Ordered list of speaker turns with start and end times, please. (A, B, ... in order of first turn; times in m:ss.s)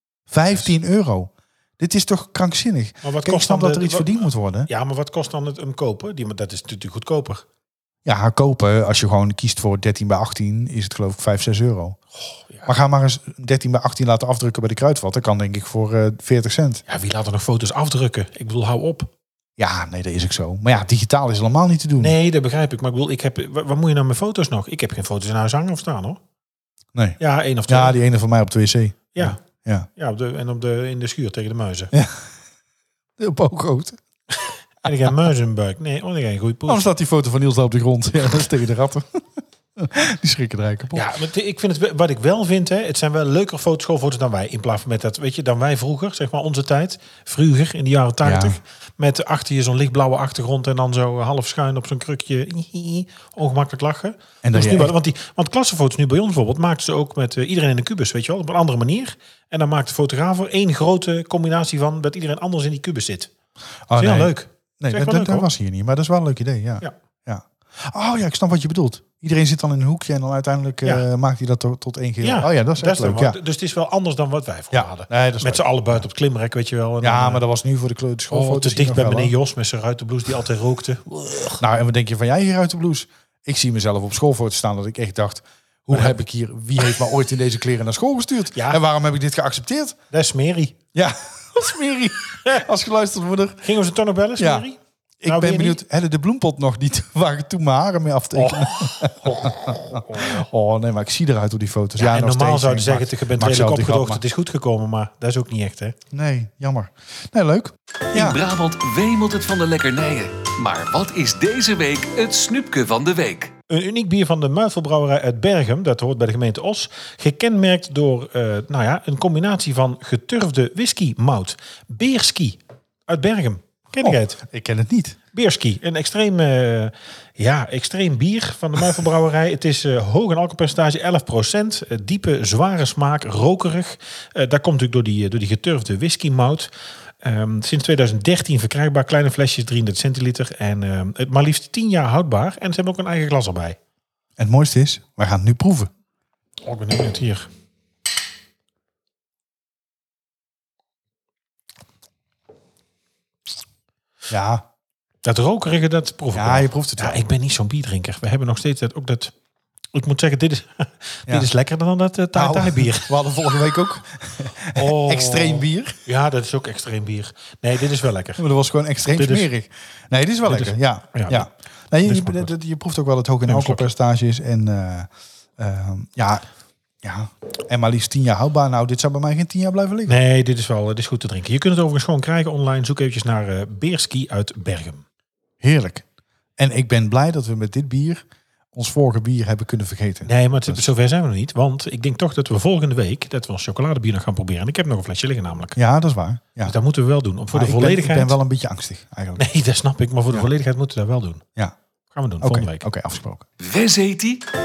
0:00.3-0:04.7 A
0:03.0-0:07.4 B
0:08.0-0:12.0 A
0:12.2-0:12.7 B
0:12.6-0:16.8 A
0:16.9-0:19.1 B
0:19.6-0:22.2 A
0:22.0-0:26.2 B
0:26.9-0:29.9 A
0:27.2-0:28.0 B
0:29.1-0:29.4 B
0:30.0-0:31.9 B
0:31.9-0:32.2 A
0:33.2-0:34.0 A
0:34.4-0:36.8 B
0:36.7-0:41.1 A
0:40.9-1:03.3 B
0:48.2-0:48.6 A
0:54.4-0:54.9 A
1:03.9-1:13.4 A
1:04.0-1:05.5 B
1:12.2-1:17.4 B
1:14.7-1:16.0 A
1:17.0-1:19.3 A
1:18.3-1:21.6 B
1:21.6-1:30.0 A
1:25.9-1:26.2 B
1:28.6-1:28.8 B
1:30.1-1:30.8 B
1:30.9-1:33.7 A
1:33.6-1:35.8 B
1:34.4-1:34.7 A
1:35.2-1:44.2 A
1:38.4-1:40.5 B
1:42.0-1:46.0 B
1:46.1-1:48.4 A
1:48.1-1:53.5 C
1:53.7-2:04.4 B
2:04.0-2:05.2 A
2:05.3-2:16.7 B
2:17.2-2:23.8 B
2:24.4-2:25.9 A
2:26.6-2:27.5 B
2:34.3-2:34.6 A
2:35.2-2:39.3 B
2:36.3-2:37.2 A
2:39.9-2:43.1 B
2:42.3-2:46.0 A
2:44.8-2:48.4 B
2:48.4-2:56.4 A
2:49.1-2:49.5 B
2:50.5-2:51.5 B
2:52.0-2:52.5 B
2:53.5-2:53.9 B
2:57.0-3:00.2 A
3:00.1-3:05.0 B
3:05.6-3:06.0 A
3:06.6-3:10.9 A
3:10.3-3:15.8 B
3:15.8-3:16.8 A
3:16.6-3:18.4 B
3:17.5-3:19.4 A
3:19.4-3:21.4 B
3:22.1-3:22.9 B
3:22.4-3:23.5 A
3:23.6-3:24.4 C